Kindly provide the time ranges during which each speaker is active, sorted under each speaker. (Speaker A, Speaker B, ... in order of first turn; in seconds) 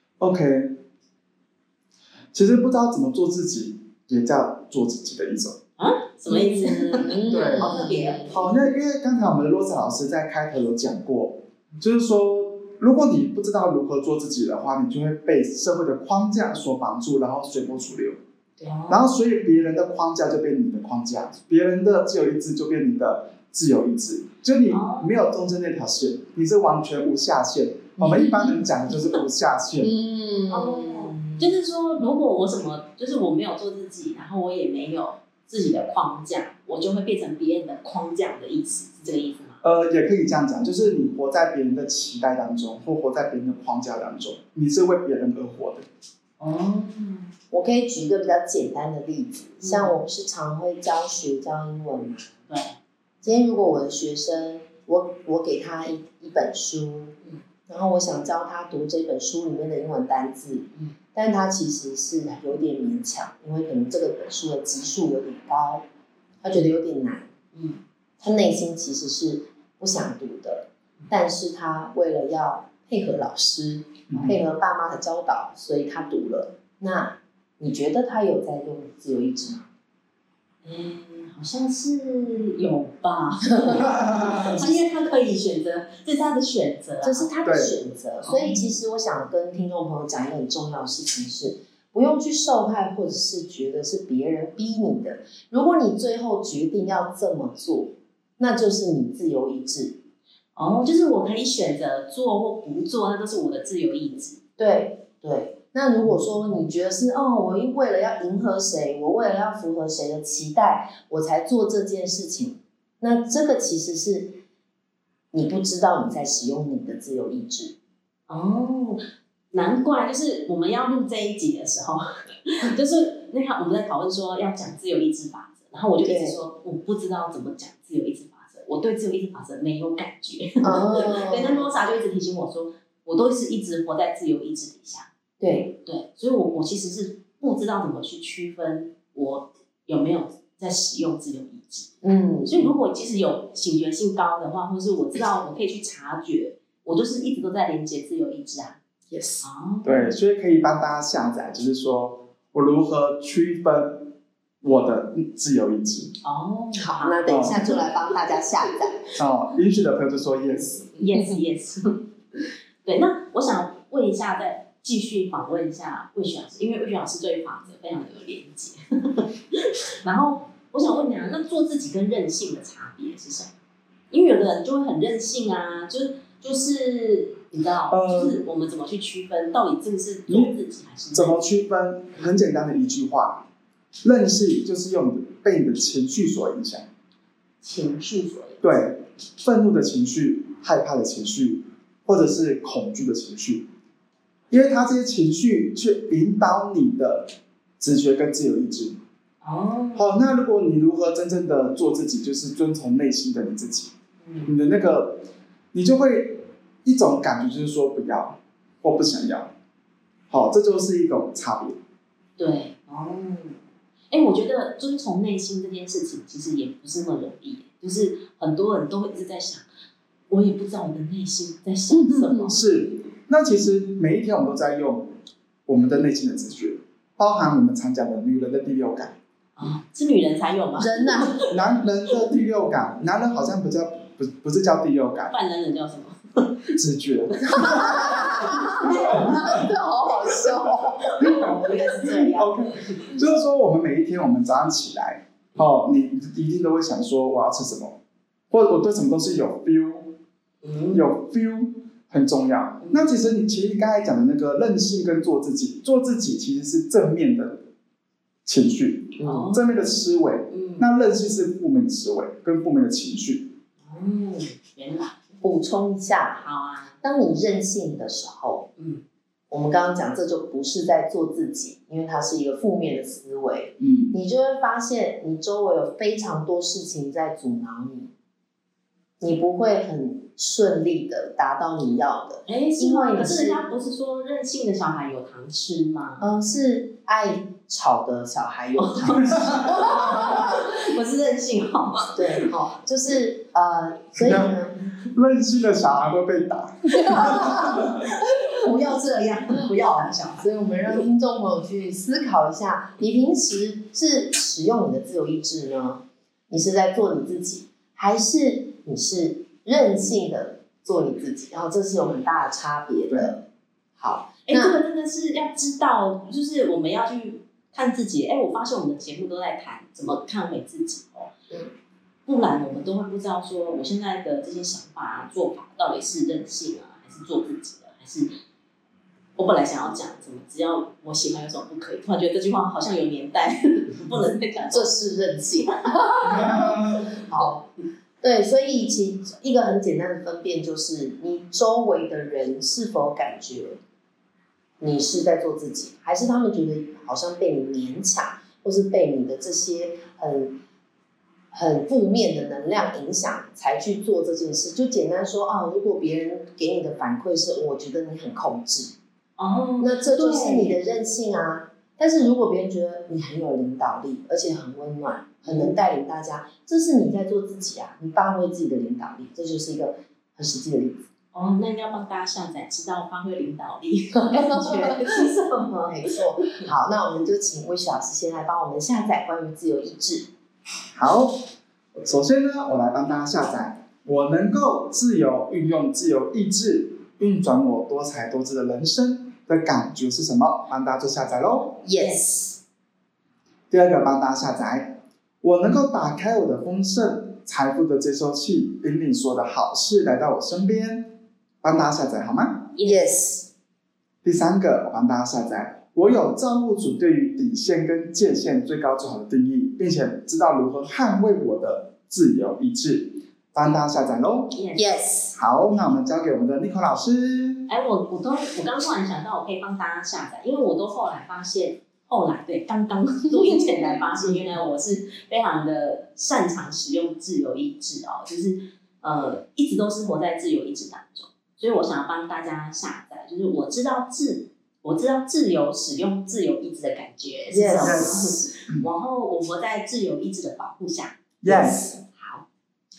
Speaker A: 0.2-0.8, 2.3-5.6, 7.3-18.2, 18.9-29.9, 39.6-45.9, 74.1-74.4, 83.9-84.6, 87.5-87.8, 149.8-154.1, 154.6-156.2, 157.3-157.6, 159.2-160.9, 177.9-178.4, 180.3-180.5, 181.1-183.4, 184.0-186.9, 188.6-193.7, 194.5-199.0, 199.9-203.9, 204.5-209.5, 210.3-211.8, 222.5-225.1, 225.7-229.2, 231.5-235.3, 236.8-238.2, 242.2-248.0, 248.5-250.1, 250.9-257.6, 258.5-263.5, 273.8-274.1, 294.2-294.6, 295.1-297.8, 336.2-337.1, 380.9-381.4, 381.9-391.8, 393.7-402.8, 404.2-414.6, 415.4-417.6, 437.8-438.8, 441.4-442.0
Speaker B: 5.8-8.5, 18.6-19.1, 24.7-25.2, 28.9-29.2, 30.5-39.6, 46.4-47.3, 49.6-49.9, 52.5-52.8, 67.5-67.8, 80.6-87.3, 88.2-88.7, 100.6-104.4, 118.3-119.0, 119.5-135.1, 135.8-141.9, 142.4-148.8, 149.4-150.1, 156.2-157.7, 160.9-173.5, 174.1-181.4, 187.6-188.9, 199.4-200.2, 204.2-204.5, 212.4-213.6, 214.1-219.7, 220.3-222.6, 229.6-231.5, 235.3-236.7, 237.5-239.4, 241.2-243.2, 250.6-251.1, 252.8-253.2, 259.2-259.7, 260.5-260.9, 263.9-265.2, 266.4-266.9, 268.8-269.0, 282.5-286.2, 288.8-292.5, 297.1-300.4, 314.5-321.3, 322.3-328.3, 329.4-334.9, 335.6-336.6, 359.4-360.8, 365.4-365.8, 371.3-376.6, 391.9-392.6, 402.8-403.1, 414.5-414.9, 417.7-442.4
Speaker C: 6.3-8.3, 28.0-28.6, 29.8-31.5, 47.5-52.3, 53.2-57.1, 57.7-65.8, 66.4-67.3, 68.2-79.7, 87.0-100.0, 104.6-114.4, 115.3-117.7, 126.0-126.4, 130.6-131.7, 135.4-135.7, 142.0-142.8, 149.1-149.5, 156.8-159.0, 221.9-222.5, 230.8-231.4, 237.6-242.3, 265.4-266.4, 267.0-268.7, 269.5-278.1, 279.2-283.6, 286.2-290.5, 292.1-294.8, 297.1-297.5, 300.3-313.4, 314.0-314.8, 334.7-337.6, 338.2-343.8, 344.8-350.6, 351.5-358.9, 359.8-371.0, 374.2-380.3, 391.8-392.5, 402.8-403.5, 414.8-415.4, 437.5-438.1